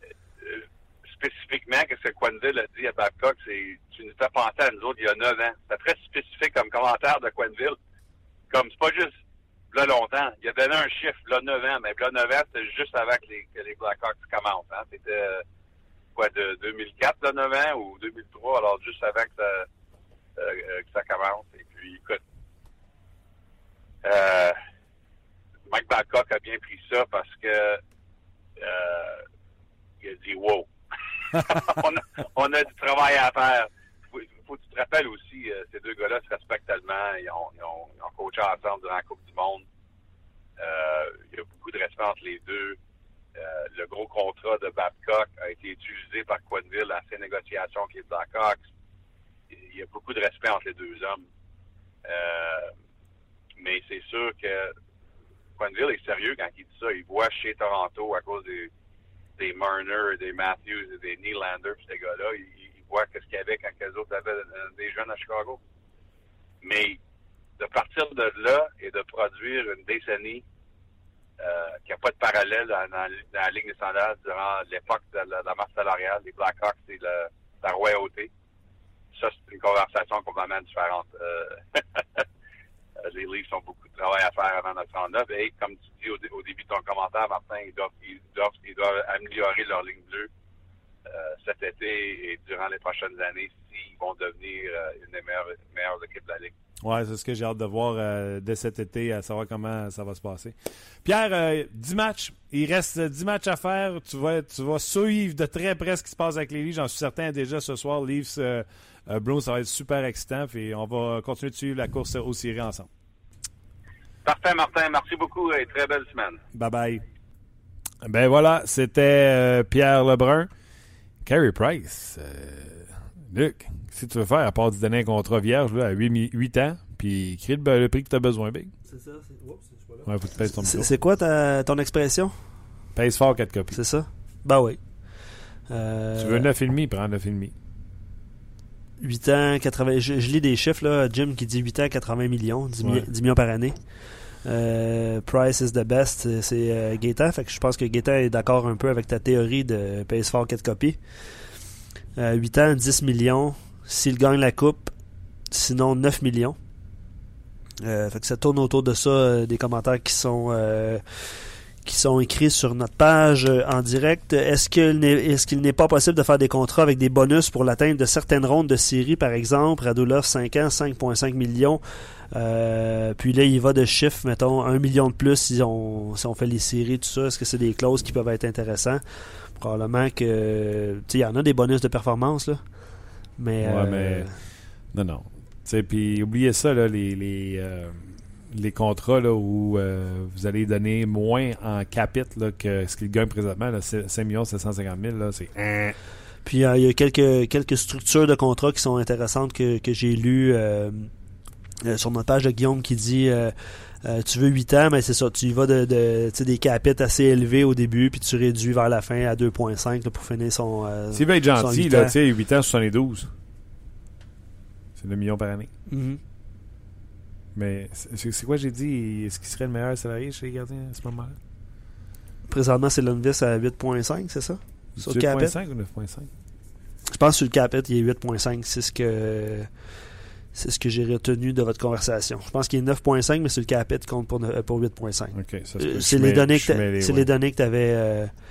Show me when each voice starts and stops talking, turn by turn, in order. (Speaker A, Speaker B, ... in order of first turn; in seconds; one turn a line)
Speaker A: 0.4-7.8
Speaker A: 8.5-9.1
Speaker A: 9.7-15.4
Speaker A: 16.1-19.7
Speaker A: 20.4-22.2
Speaker A: 24.0-24.6
Speaker A: 25.7-27.8
Speaker A: 28.6-29.2
Speaker A: 30.0-30.7
Speaker A: 31.3-39.6
Speaker A: 40.6-42.8
Speaker A: 43.4-48.6
Speaker A: 49.5-51.2
Speaker A: 52.0-52.7
Speaker A: 53.6-54.7
Speaker A: 55.6-58.7
Speaker A: 59.4-65.6
Speaker A: 66.6-67.0
Speaker A: 67.6-70.4
Speaker A: 71.4-78.3
Speaker A: 79.1-82.2
Speaker A: 83.0-90.3
Speaker A: 91.0-96.5
Speaker B: 96.8-112.9
Speaker A: 114.2-116.4
Speaker B: 116.5-117.0
Speaker B: 118.0-120.5
Speaker B: 121.2-128.7
Speaker C: 128.9-132.3
Speaker B: 130.0-130.9
Speaker B: 132.9-133.8
Speaker C: 133.7-136.5
Speaker B: 136.2-137.5
Speaker C: 139.0-151.0
Speaker B: 142.8-143.1
Speaker C: 152.2-154.9
Speaker C: 155.5-156.6
Speaker C: 157.8-171.8
Speaker C: 172.3-184.4
Speaker B: 183.6-196.0
Speaker C: 196.4-201.1
Speaker C: 201.8-212.1
Speaker B: 211.1-213.3
Speaker B: 214.9-215.7
Speaker C: 215.9-216.2
Speaker B: 217.5-221.4
Speaker C: 222.5-225.5
Speaker B: 224.9-226.3
Speaker C: 227.1-229.7
Speaker C: 230.5-238.3
Speaker B: 235.3-237.3